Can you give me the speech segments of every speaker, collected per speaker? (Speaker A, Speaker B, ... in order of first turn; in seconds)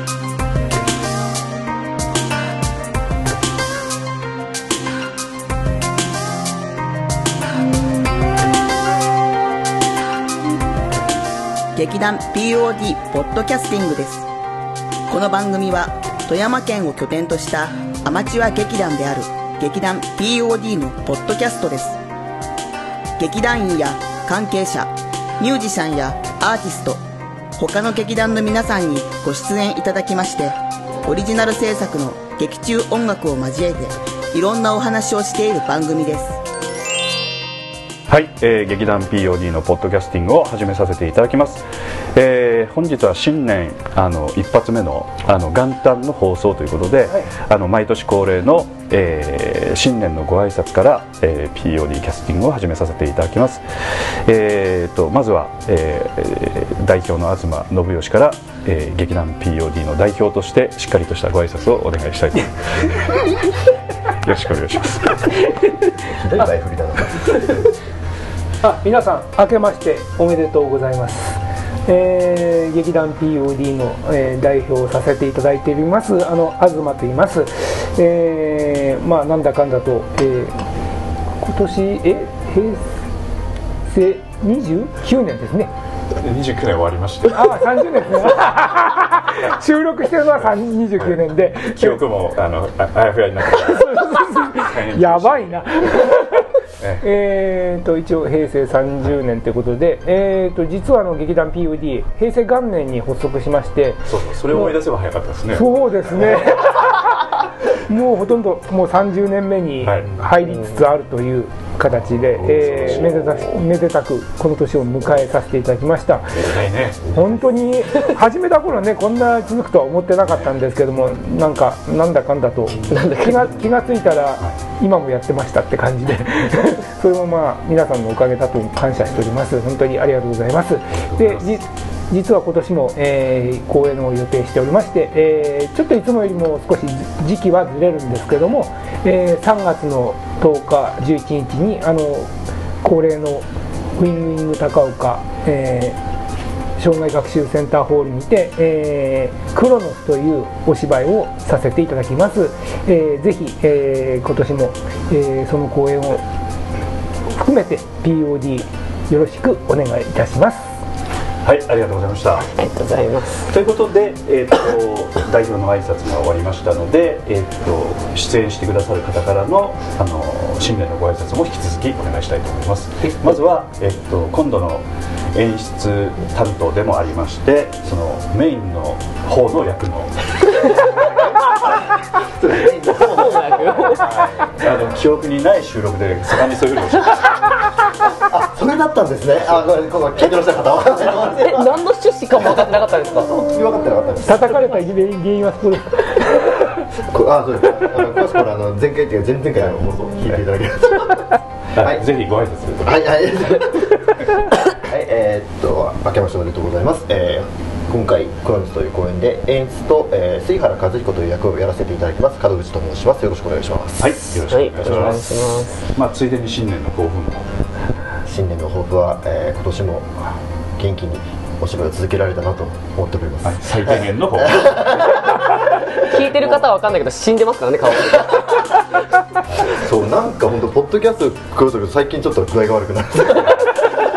Speaker A: 11.8-14.3, 15.1-22.0, 23.2-27.0, 27.6-36.4
Speaker B: 38.1-63.3, 64.2-65.4, 86.2-87.7, 91.6-95.9, 96.8-97.0, 104.1-105.9, 109.8-110.1, 116.4-117.2, 120.2-120.5, 130.9-131.6, 161.4-162.5, 163.5-180.7, 184.0-187.4, 201.8-203.1, 214.0-217.5, 223.4-225.0
Speaker C: 66.0-67.3, 181.5-184.2, 188.3-194.7, 196.8-202.0, 202.8-214.1, 218.2-225.6, 226.2-226.6, 229.6-234.0
Speaker D: 68.6-80.6, 81.4-83.0, 83.9-85.7, 87.3-92.0, 93.5-96.4, 97.0-104.8, 105.5-116.4, 117.1-142.3, 142.8-143.5, 144.0-146.0, 146.8-156.2, 157.3-160.8, 194.2-196.3
Speaker E: 122.9-123.6, 162.5-163.5, 182.9-184.1, 191.3-193.5, 214.5-215.8, 226.0-228.7